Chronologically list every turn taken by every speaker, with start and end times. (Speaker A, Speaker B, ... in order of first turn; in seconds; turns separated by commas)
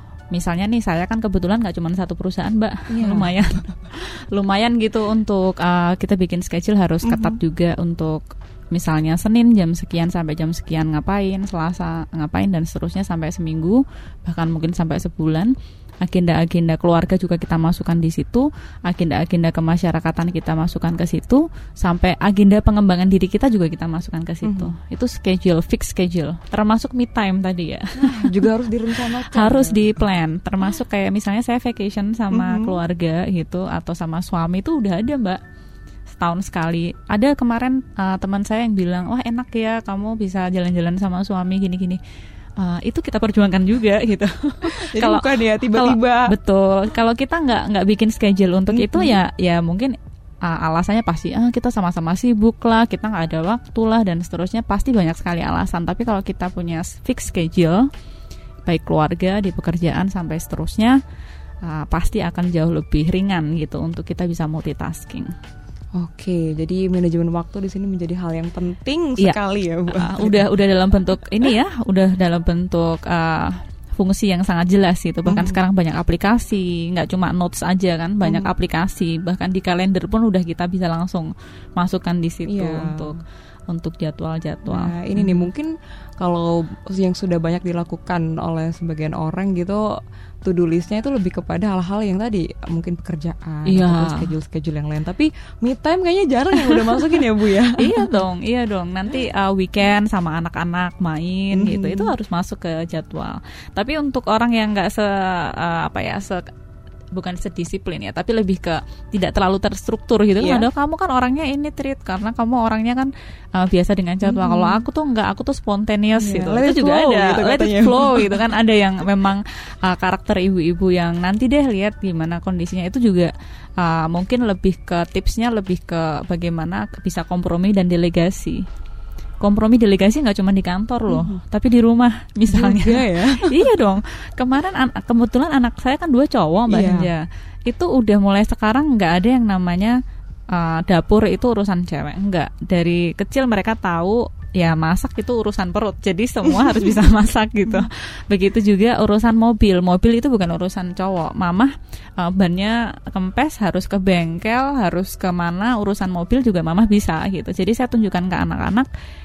Speaker A: 0.3-28.4, Speaker B: 2.9-3.3, Speaker B: 7.0-7.4, Speaker B: 24.4-24.7, Speaker B: 28.0-30.0, Speaker A: 29.0-35.4, Speaker B: 32.3-32.8, Speaker A: 36.1-42.0, Speaker A: 42.6-57.9, Speaker B: 44.7-46.3, Speaker B: 48.7-49.2, Speaker A: 58.6-61.0, Speaker A: 61.6-65.3, Speaker B: 65.9-70.5, Speaker A: 69.2-83.2, Speaker B: 75.3-75.6, Speaker B: 78.2-78.5, Speaker B: 82.5-83.2, Speaker A: 83.7-85.5, Speaker B: 84.7-89.8, Speaker B: 90.4-98.1, Speaker A: 93.7-94.3, Speaker A: 96.7-97.1, Speaker A: 97.8-106.5, Speaker B: 101.5-102.1, Speaker A: 107.1-128.6, Speaker B: 110.4-110.7, Speaker B: 114.2-114.8, Speaker B: 116.2-118.4, Speaker A: 129.4-140.0, Speaker B: 131.1-131.4, Speaker B: 132.5-133.6, Speaker B: 136.7-137.1, Speaker A: 140.5-158.9, Speaker B: 146.5-146.9